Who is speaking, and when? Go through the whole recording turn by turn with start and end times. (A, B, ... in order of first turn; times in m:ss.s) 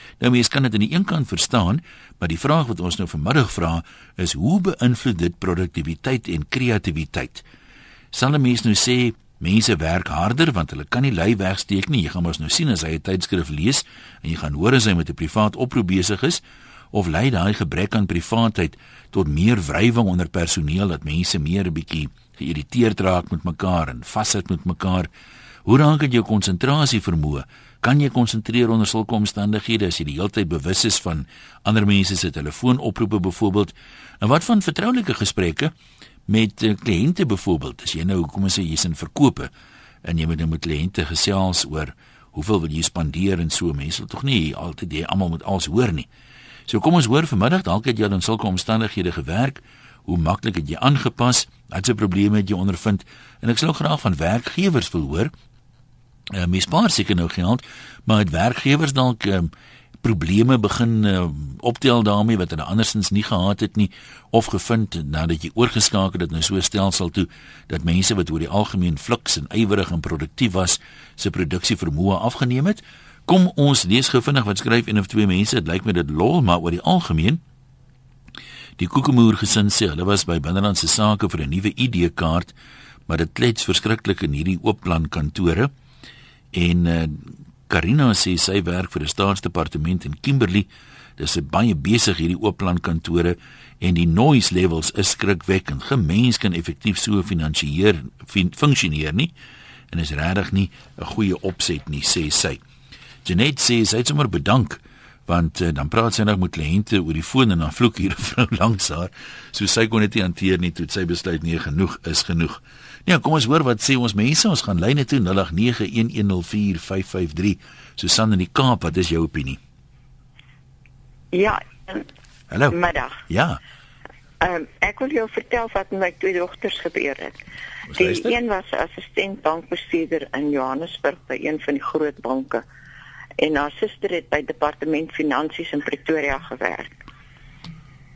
0:00.2-0:07.4 A
0:08.1-0:16.4 A
0:16.9-0:25.1 A
0:25.6-0:35.7 A
0:36.3-0:39.5 A
0:40.0-0:46.1 A
0:46.7-0:55.3 A
0:56.3-0:59.5 A
1:00.0-1:17.4 A
1:18.8-1:22.5 A
1:23.1-1:25.7 A
1:26.5-1:39.3 A
1:39.9-1:42.6 A
1:43.2-1:59.6 A
2:01.3-2:02.0 B
2:02.5-2:03.6 A
2:02.7-2:03.2 B
2:04.4-2:07.4 B
2:07.9-2:08.3 A
2:07.9-2:12.6 B
2:13.4-2:17.0 B